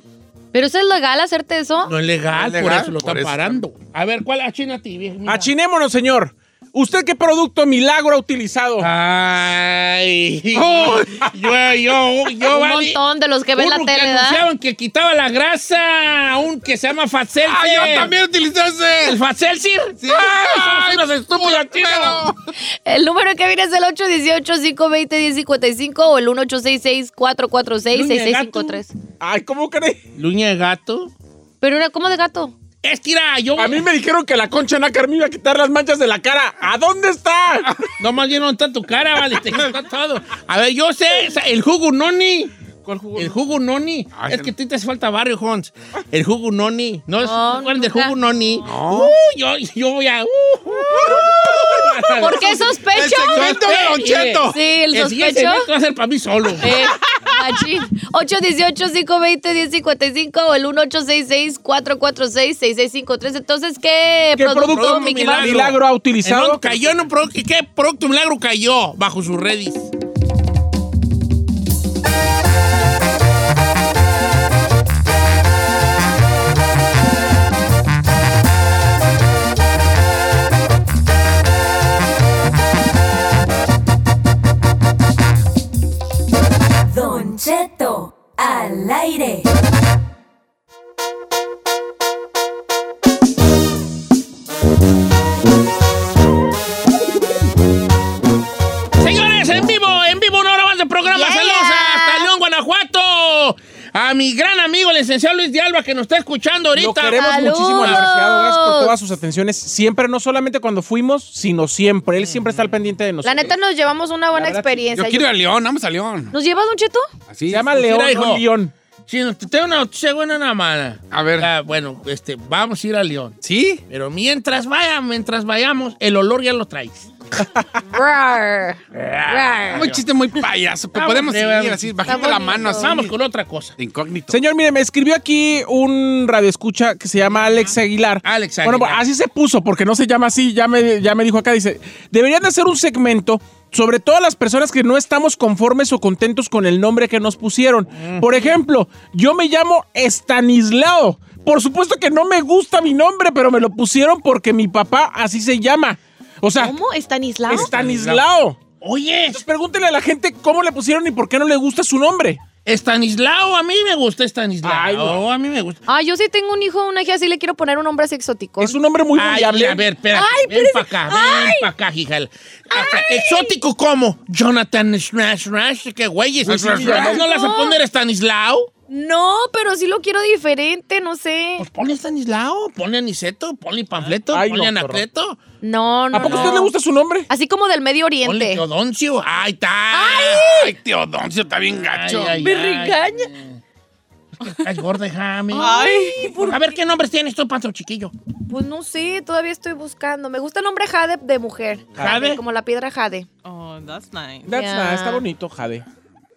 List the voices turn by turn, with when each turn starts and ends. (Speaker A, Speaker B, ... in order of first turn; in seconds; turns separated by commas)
Speaker A: 0.5-1.9, Speaker B: 1.8-5.5, Speaker C: 2.3-3.6, Speaker D: 5.3-8.9, Speaker B: 8.8-13.0, Speaker C: 10.6-11.3, Speaker A: 12.5-14.4, Speaker B: 13.6-18.1, Speaker C: 17.4-19.2, Speaker B: 19.0-22.3, Speaker C: 20.0-22.4, Speaker A: 22.9-28.9, Speaker B: 27.9-28.8, Speaker D: 29.2-30.0, Speaker B: 30.2-31.1, Speaker A: 31.6-32.5, Speaker B: 32.8-33.8, Speaker D: 33.6-37.7, Speaker B: 38.0-42.5, Speaker D: 42.9-43.4, Speaker B: 43.2-56.7, Speaker C: 44.1-44.5, Speaker A: 47.2-48.1, Speaker C: 48.7-49.1, Speaker A: 52.2-53.6, Speaker C: 52.9-54.6, Speaker A: 54.5-55.7, Speaker A: 56.6-65.5, Speaker D: 64.4-66.7, Speaker B: 64.6-69.9, Speaker E: 86.8-89.5, Speaker B: 99.0-108.1, Speaker A: 101.0-102.3, Speaker D: 106.8-113.5, Speaker A: 107.2-108.9, Speaker B: 112.2-112.6, Speaker A: 113.2-115.3, Speaker D: 114.4-114.7, Speaker C: 114.9-116.3, Speaker A: 116.3-117.1, Speaker C: 117.3-117.7, Speaker D: 117.5-118.7, Speaker B: 117.7-118.4, Speaker B: 119.1-123.4, Speaker C: 121.1-121.5, Speaker C: 123.4-123.8, Speaker B: 123.9-127.1, Speaker A: 127.9-129.8, Speaker B: 128.9-130.0, Speaker C: 129.7-133.1, Speaker B: 130.9-133.8, Speaker A: 132.1-132.9, Speaker C: 133.8-134.4, Speaker D: 134.3-156.8, Speaker B: 138.2-139.0, Speaker B: 147.9-148.5, Speaker A: 156.6-157.7, Speaker B: 157.5-158.2, Speaker D: 157.5-158.6, Speaker B: 158.8-159.4, Speaker D: 159.3-162.4, Speaker B: 162.7-165.8, Speaker D: 164.6-165.2, Speaker A: 165.9-168.8, Speaker D: 168.6-169.8, Speaker B: 169.2-178.7, Speaker A: 170.1-171.7, Speaker A: 172.7-173.6, Speaker C: 176.5-177.2, Speaker D: 176.6-177.2, Speaker A: 177.1-177.8, Speaker A: 178.9-181.7, Speaker B: 181.6-185.4, Speaker D: 184.3-185.0, Speaker A: 185.6-186.7, Speaker D: 186.1-187.3, Speaker B: 186.2-186.5, Speaker A: 187.3-188.6, Speaker B: 188.2-190.5, Speaker A: 189.9-190.7, Speaker C: 190.2-192.4, Speaker B: 191.9-193.6, Speaker A: 192.4-193.3, Speaker B: 194.4-195.7, Speaker A: 195.5-196.7, Speaker F: 195.5-196.4, Speaker B: 196.4-198.1, Speaker A: 198.5-203.3, Speaker B: 202.0-202.4, Speaker F: 203.4-204.5, Speaker D: 204.4-205.9, Speaker A: 204.5-205.2